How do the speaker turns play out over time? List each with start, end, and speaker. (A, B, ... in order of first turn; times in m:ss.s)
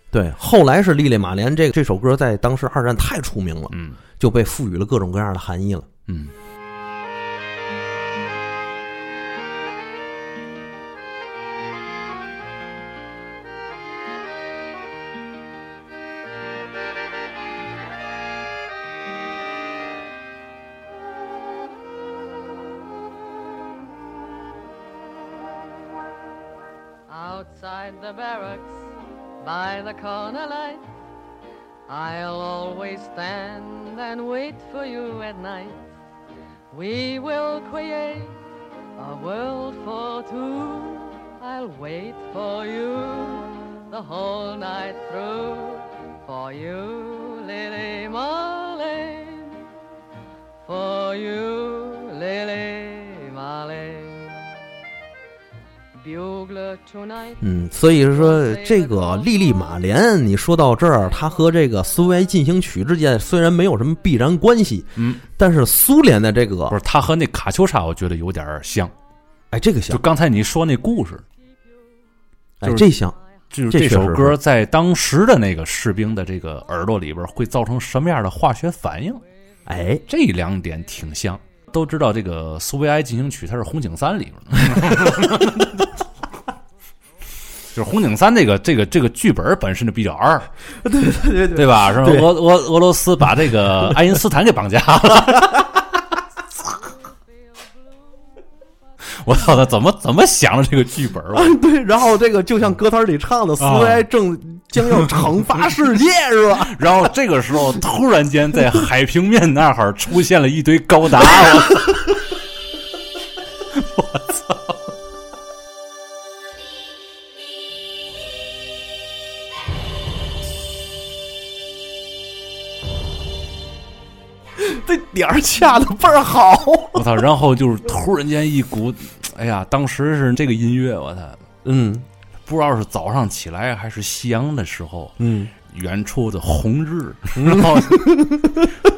0:00.1-0:05.9 A
0:03.7-0:04.0 B
0:06.1-0:06.3 B
0:27.1-0:30.8 C
0:31.9-0:35.9 C
0:36.7-0:38.4 C
0:39.0-0:49.6 C
0:50.6-0:54.5 C
0:56.0-0:57.4 C
0:57.4-1:06.8 A
0:58.1-0:59.7 C
1:05.0-1:05.2 B
1:06.7-1:08.9 B
1:09.5-1:10.0 A
1:09.9-1:11.2 B
1:12.6-1:13.2 A
1:12.6-1:12.9 B
1:13.5-1:19.2 B
1:13.7-1:14.4 A
1:19.7-1:20.0 A
1:20.1-1:25.8 B
1:27.7-1:30.5 B
1:30.8-1:32.3 A
1:31.5-1:35.7 B
1:35.3-1:35.8 A
1:39.1-1:41.6 B
1:41.3-1:47.1 A
1:43.6-1:44.1 B
1:46.6-1:52.1 B
1:53.8-1:54.7 B
2:04.6-2:07.1 A
2:06.9-2:11.4 B
2:11.6-2:12.1 A
2:12.5-2:18.4 B
2:15.2-2:15.5 A
2:17.4-2:18.7 A